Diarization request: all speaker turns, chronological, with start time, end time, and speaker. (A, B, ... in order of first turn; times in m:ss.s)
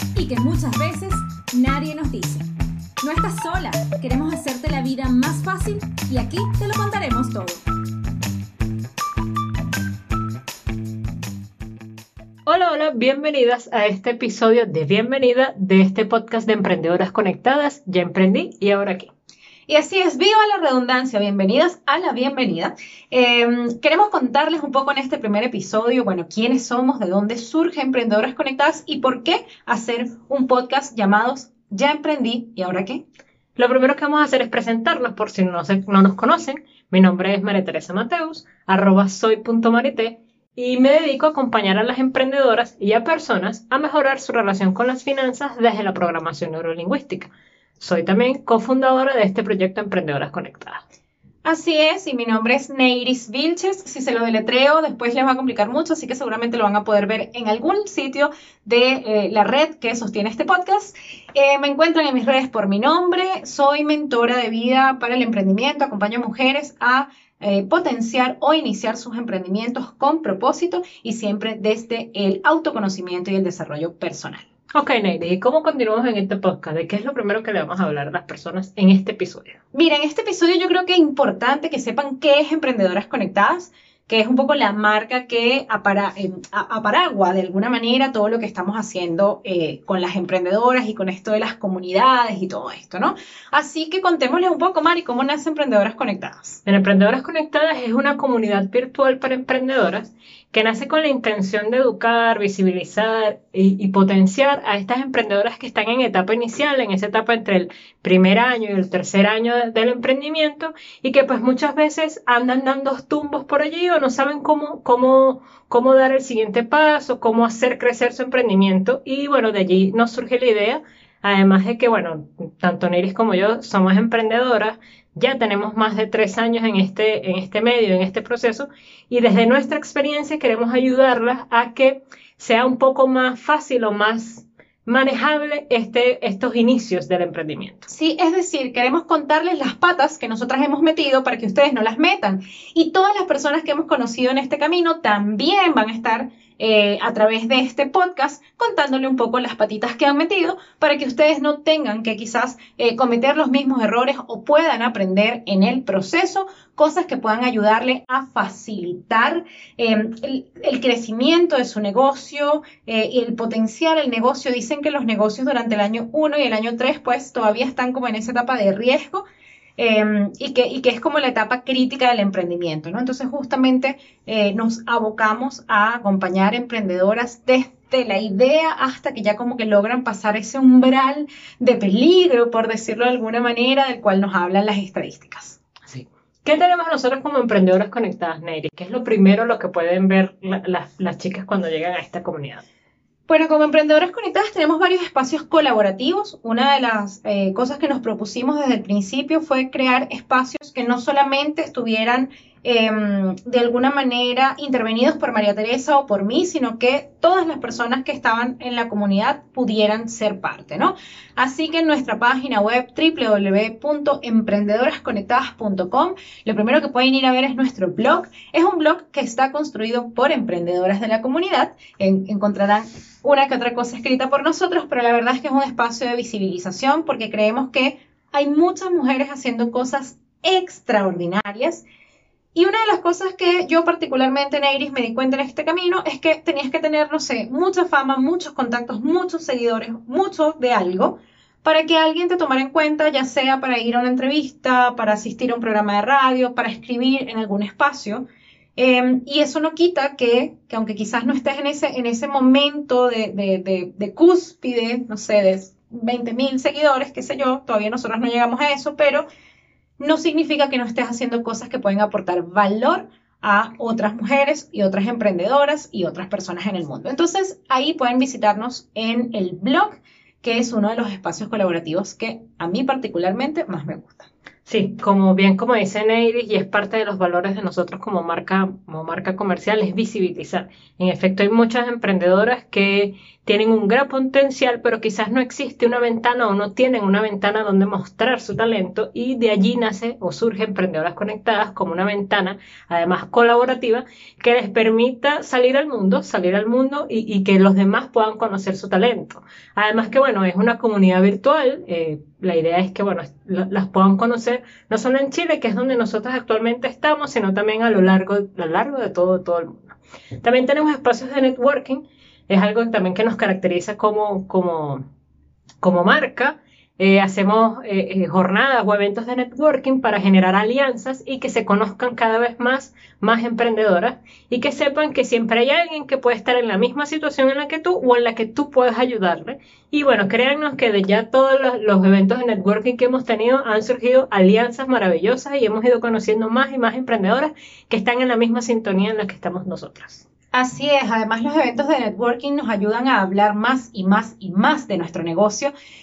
0:00.2-0:02.4 A
0:03.0-0:07.6 A
0:12.4-0:19.1 B
0:19.7-0:33.0 C
0:33.6-0:50.8 B
0:51.4-1:14.4 C
1:14.7-1:19.6 B
1:19.7-1:36.6 C
1:36.6-2:17.9 B
2:17.9-2:49.2 C
2:49.8-3:05.6 C
3:05.8-3:12.6 B
3:13.3-3:51.8 C
3:52.5-4:19.2 C
4:20.0-4:34.3 C
4:34.6-5:15.0 B
5:15.8-5:40.3 B
5:40.5-5:45.7 C